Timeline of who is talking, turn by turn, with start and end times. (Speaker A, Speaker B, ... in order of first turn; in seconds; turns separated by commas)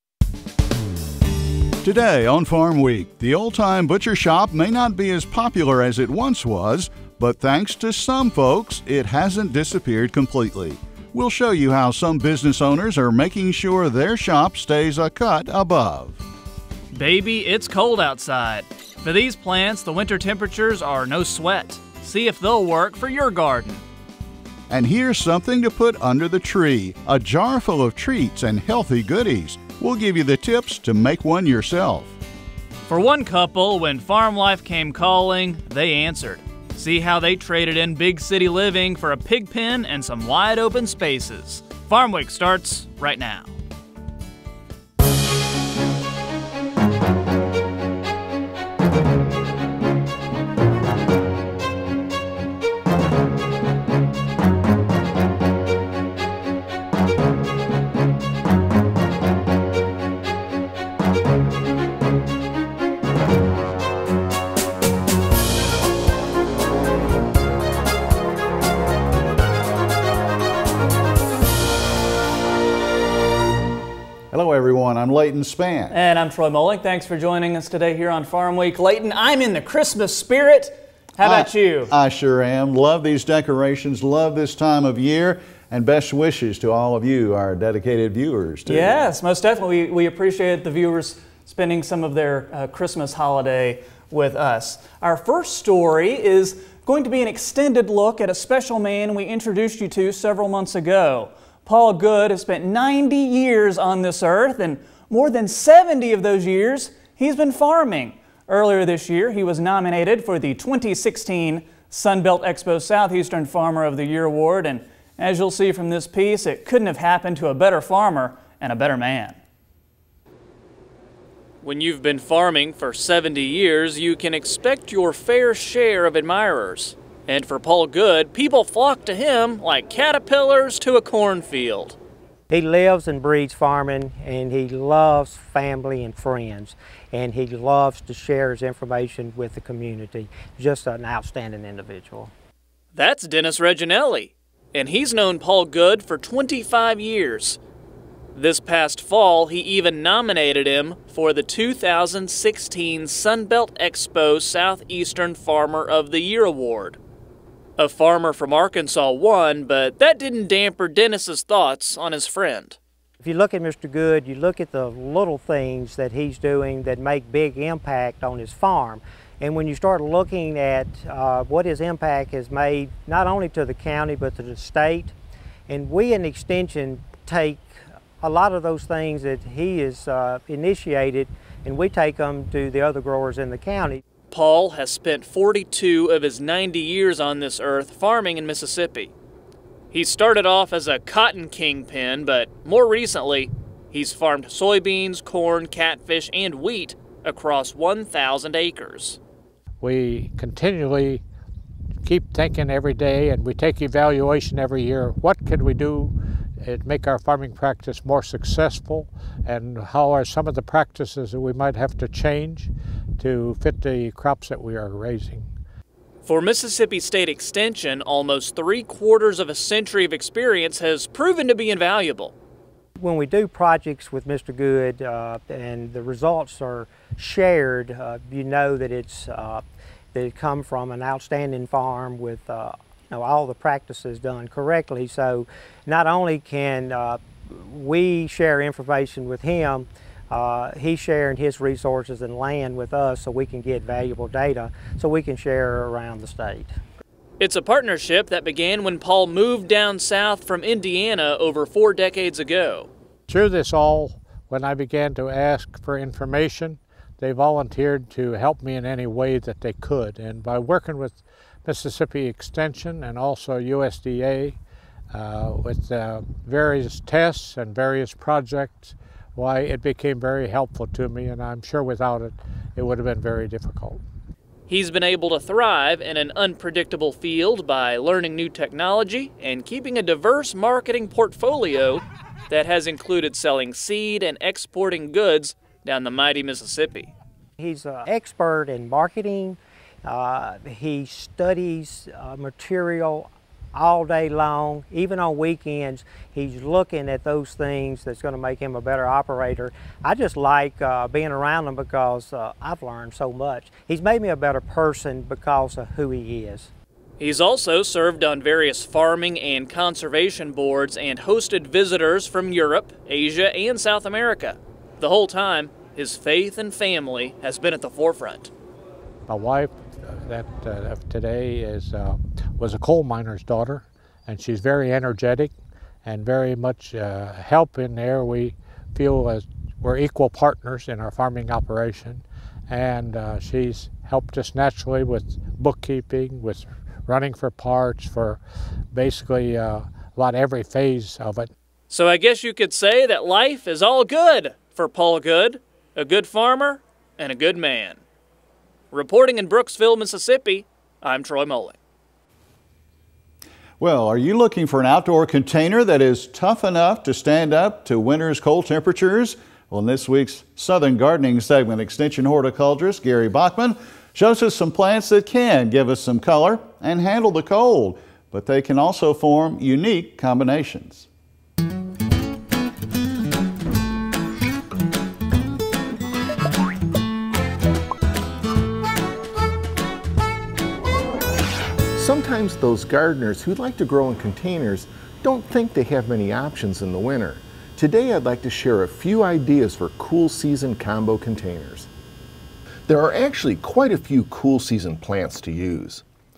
Speaker A: 1.8-16.2, Speaker B: 16.9-23.8, Speaker A: 24.7-32.1, Speaker B: 32.9-43.5, Speaker A: 74.3-75.9, Speaker B: 75.9-81.9, Speaker A: 81.2-89.0, Speaker B: 88.6-119.4, Speaker B: 121.6-132.0, Speaker C: 132.5-142.3, Speaker B: 142.9-147.6, Speaker B: 148.3-157.0, Speaker B: 157.8-162.8, Speaker C: 163.2-175.1, Speaker C: 175.7-184.0, Speaker B: 184.3-189.1, Speaker B: 189.9-199.2, Speaker D: 199.8-201.2, Speaker D: 202.0-215.5, Speaker B: 216.2-222.3, Speaker C: 223.0-246.7, Speaker B: 247.4-252.9, Speaker D: 253.3-264.6, Speaker D: 265.1-274.0, Speaker B: 274.7-287.1, Speaker C: 287.6-306.7, Speaker B: 307.2-318.5, Speaker D: 319.3-325.5, Speaker D: 326.0-338.4, Speaker D: 338.9-341.5, Speaker B: 341.9-348.0, Speaker B: 348.9-351.8, Speaker A: 353.8-371.1, Speaker E: 381.9-391.9, Speaker E: 392.9-396.0